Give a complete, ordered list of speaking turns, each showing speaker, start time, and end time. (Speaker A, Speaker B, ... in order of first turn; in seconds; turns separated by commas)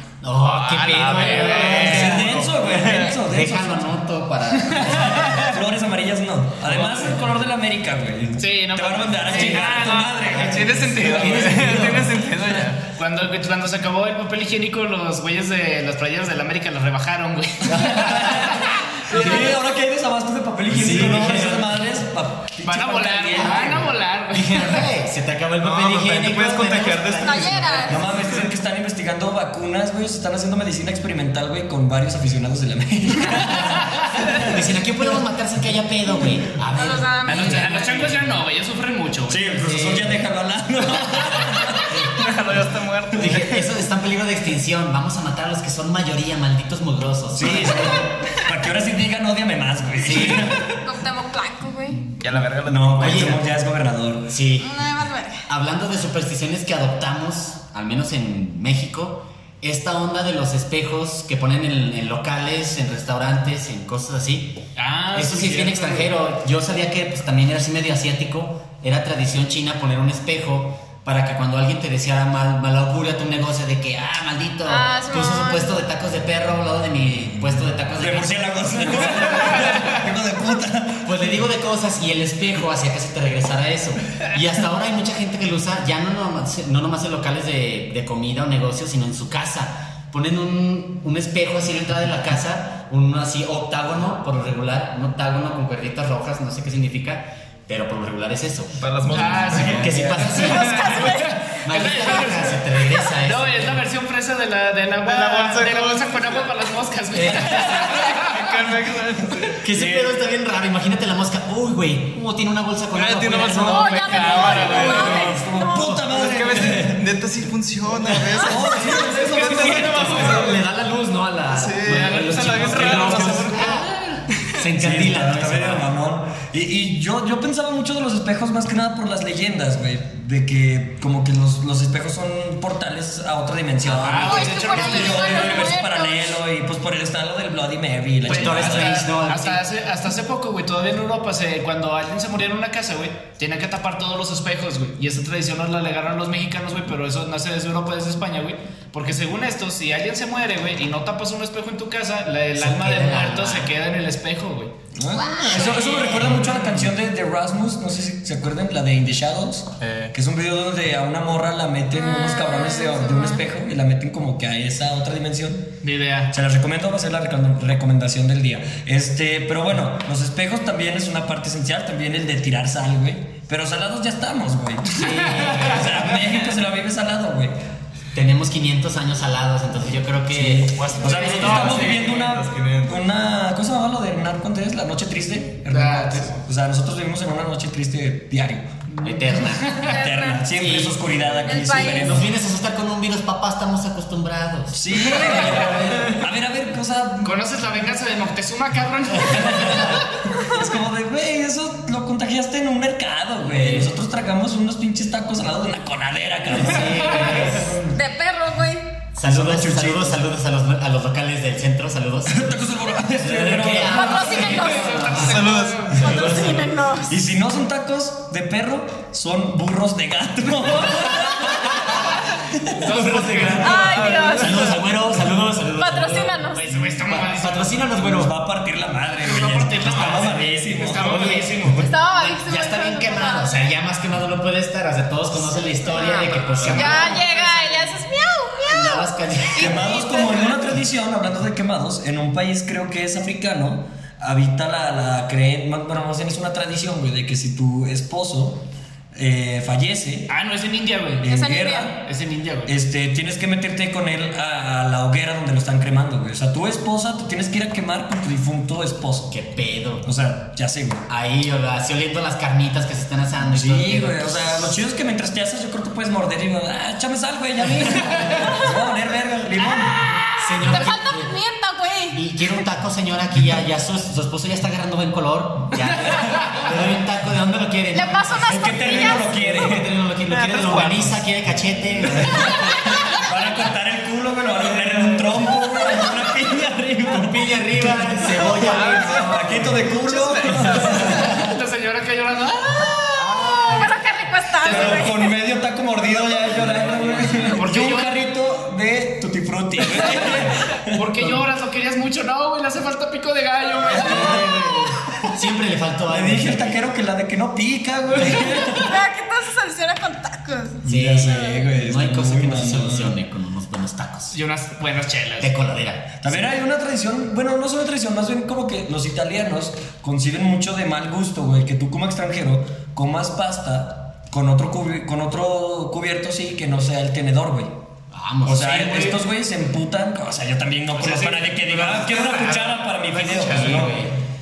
Speaker A: 0.2-5.4, Speaker B: 0.5-2.2, Speaker C: 0.8-3.1, Speaker D: 1.6-3.9, Speaker B: 4.7-5.5, Speaker D: 4.9-11.8, Speaker C: 6.8-7.2, Speaker B: 8.4-10.3, Speaker C: 9.9-12.9, Speaker A: 10.3-12.2, Speaker B: 12.9-19.5, Speaker D: 17.6-23.9, Speaker A: 17.7-18.2, Speaker A: 19.1-19.5, Speaker A: 20.7-21.8, Speaker B: 22.6-24.9, Speaker A: 23.3-27.9, Speaker C: 25.6-28.2, Speaker E: 27.2-28.0, Speaker D: 27.9-34.5, Speaker B: 33.5-34.1, Speaker A: 34.4-38.2, Speaker E: 36.7-38.1, Speaker B: 37.2-39.6, Speaker D: 39.3-42.2, Speaker A: 39.6-40.2, Speaker C: 41.9-43.6, Speaker A: 43.1-48.0, Speaker D: 47.3-50.8, Speaker A: 50.0-50.5, Speaker E: 50.1-52.0, Speaker C: 52.1-53.4, Speaker D: 52.6-54.4, Speaker A: 53.0-53.4, Speaker A: 54.3-54.9, Speaker E: 54.6-55.4, Speaker A: 55.5-64.6, Speaker B: 64.8-66.1, Speaker A: 65.1-79.9, Speaker E: 74.7-75.7, Speaker D: 78.0-81.2, Speaker A: 81.0-103.8, Speaker C: 98.7-101.1, Speaker B: 99.1-102.6, Speaker E: 100.4-101.3, Speaker E: 101.8-102.3, Speaker B: 103.2-108.5, Speaker C: 105.0-106.5, Speaker C: 107.6-109.6, Speaker A: 109.6-116.1, Speaker D: 109.7-110.1, Speaker C: 112.9-115.4, Speaker E: 113.6-115.9, Speaker B: 113.8-115.3, Speaker D: 115.1-117.0, Speaker C: 116.1-120.6, Speaker A: 118.0-123.9, Speaker D: 118.4-120.2, Speaker B: 118.8-120.5, Speaker C: 121.5-123.8, Speaker B: 121.9-123.9, Speaker A: 124.5-125.9, Speaker D: 124.8-139.1, Speaker B: 133.9-135.4, Speaker A: 133.9-134.4, Speaker E: 134.2-136.4, Speaker A: 138.2-139.6, Speaker B: 138.3-154.7, Speaker A: 152.6-153.7, Speaker D: 154.9-165.7, Speaker E: 155.2-156.1, Speaker A: 156.1-156.6, Speaker B: 159.8-160.1, Speaker E: 161.9-163.4, Speaker B: 165.8-166.3, Speaker D: 166.3-177.5, Speaker A: 174.9-176.2, Speaker B: 175.0-175.8, Speaker A: 178.1-181.8, Speaker D: 180.3-188.7, Speaker C: 180.7-183.0, Speaker B: 181.1-181.9, Speaker B: 185.7-186.4, Speaker B: 188.9-189.9, Speaker A: 189.0-189.8, Speaker E: 189.8-190.5, Speaker D: 189.8-192.3, Speaker A: 190.5-195.9, Speaker E: 191.4-192.2, Speaker D: 194.7-197.4, Speaker B: 197.2-200.0, Speaker D: 199.3-208.0, Speaker A: 199.4-199.8, Speaker A: 203.4-203.9, Speaker A: 206.5-207.8, Speaker B: 207.0-207.4, Speaker E: 207.9-209.0, Speaker A: 209.1-212.5, Speaker D: 209.2-210.2, Speaker D: 212.3-214.6, Speaker A: 213.2-215.5, Speaker E: 213.8-215.1, Speaker B: 214.3-216.4, Speaker C: 215.1-216.3, Speaker E: 215.9-217.1, Speaker A: 216.0-216.7, Speaker D: 217.0-221.9, Speaker D: 222.5-222.8, Speaker B: 222.8-224.3, Speaker A: 222.8-228.3, Speaker E: 223.6-224.8, Speaker C: 223.9-224.8, Speaker E: 225.8-226.7, Speaker B: 226.6-227.8, Speaker D: 228.0-231.2, Speaker B: 229.2-231.9, Speaker A: 229.9-230.2, Speaker A: 231.0-237.5, Speaker E: 231.8-233.7, Speaker E: 235.8-240.5, Speaker B: 236.0-237.9, Speaker A: 238.7-239.9, Speaker D: 239.6-250.3, Speaker B: 250.3-251.3, Speaker D: 251.2-252.1, Speaker E: 251.2-251.9, Speaker B: 252.0-252.7, Speaker D: 252.7-259.3, Speaker A: 259.3-260.1, Speaker D: 260.0-261.1, Speaker A: 261.1-264.8, Speaker D: 263.5-270.2, Speaker A: 267.9-268.6, Speaker E: 268.4-268.7, Speaker E: 269.6-272.4, Speaker A: 270.4-271.3, Speaker A: 272.1-283.0, Speaker E: 277.9-279.3, Speaker D: 278.5-279.9, Speaker C: 280.2-281.2, Speaker D: 282.0-291.6, Speaker E: 282.5-283.2, Speaker A: 287.1-291.1, Speaker C: 288.5-289.3, Speaker B: 290.1-293.9, Speaker E: 292.8-295.3, Speaker B: 294.6-295.1, Speaker D: 294.6-301.4, Speaker C: 296.8-297.0, Speaker B: 297.5-298.2, Speaker B: 299.9-304.8, Speaker D: 303.9-304.6, Speaker A: 303.9-306.8, Speaker D: 306.1-308.9, Speaker E: 308.5-311.7, Speaker D: 310.8-313.1, Speaker A: 310.9-314.3, Speaker B: 314.3-315.5, Speaker A: 315.4-316.4, Speaker D: 316.2-327.7, Speaker A: 328.1-329.2, Speaker D: 328.4-334.0, Speaker B: 330.9-333.9, Speaker A: 333.3-334.1